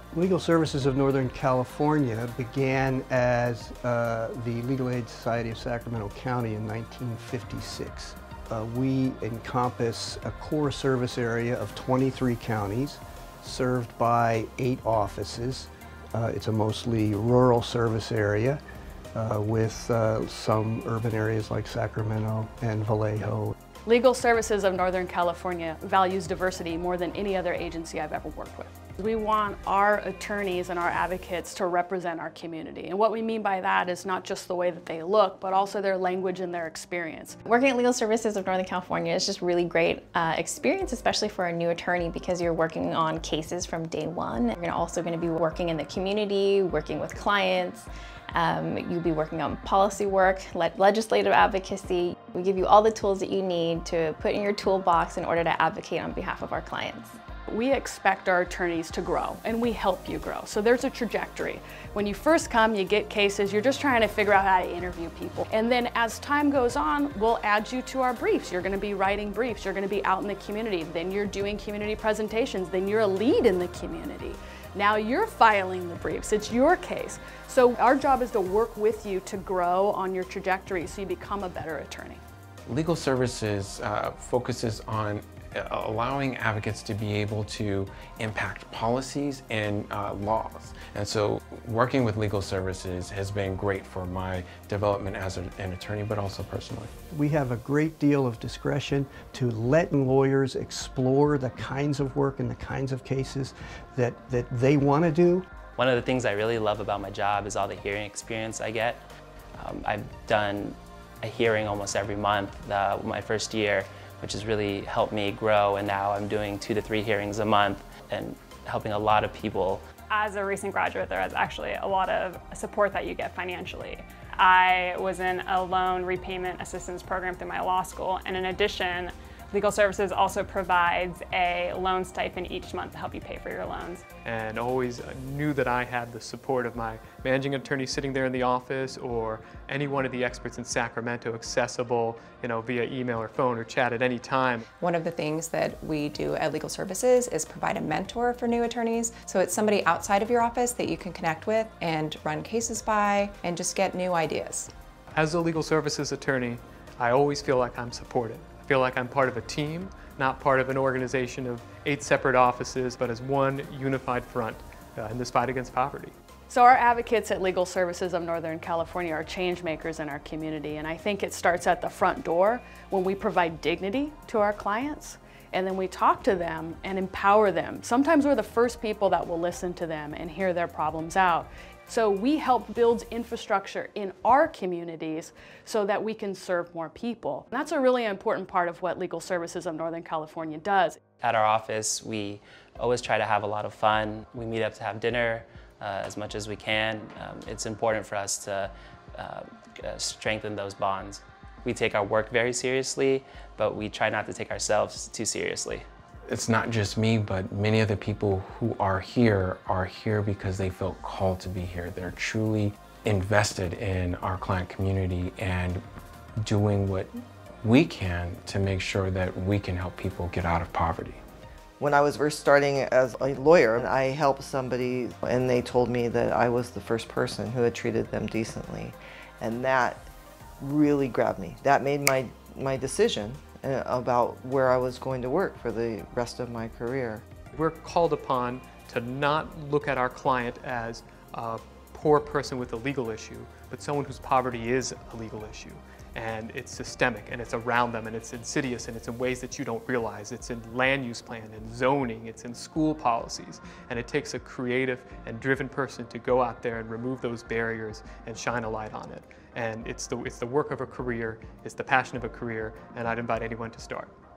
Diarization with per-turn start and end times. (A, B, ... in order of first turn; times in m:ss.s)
0:00.1-0:18.6 A
0:19.2-0:23.6 A
0:23.9-0:37.4 B
0:37.5-0:57.2 C
0:57.5-1:22.2 B
1:22.7-1:36.9 D
1:37.1-1:45.5 A
1:45.8-1:49.0 E
1:49.6-1:59.8 E
2:00.1-2:14.0 F
2:14.2-2:24.6 G
2:24.8-2:34.7 H
2:35.1-2:46.1 G
2:46.5-3:11.0 B
3:11.2-3:25.8 E
3:26.3-3:35.8 D
3:36.4-3:37.1 D
3:37.6-3:41.2 D
3:41.8-3:50.1 I
3:50.6-3:57.2 I
3:57.5-4:24.1 G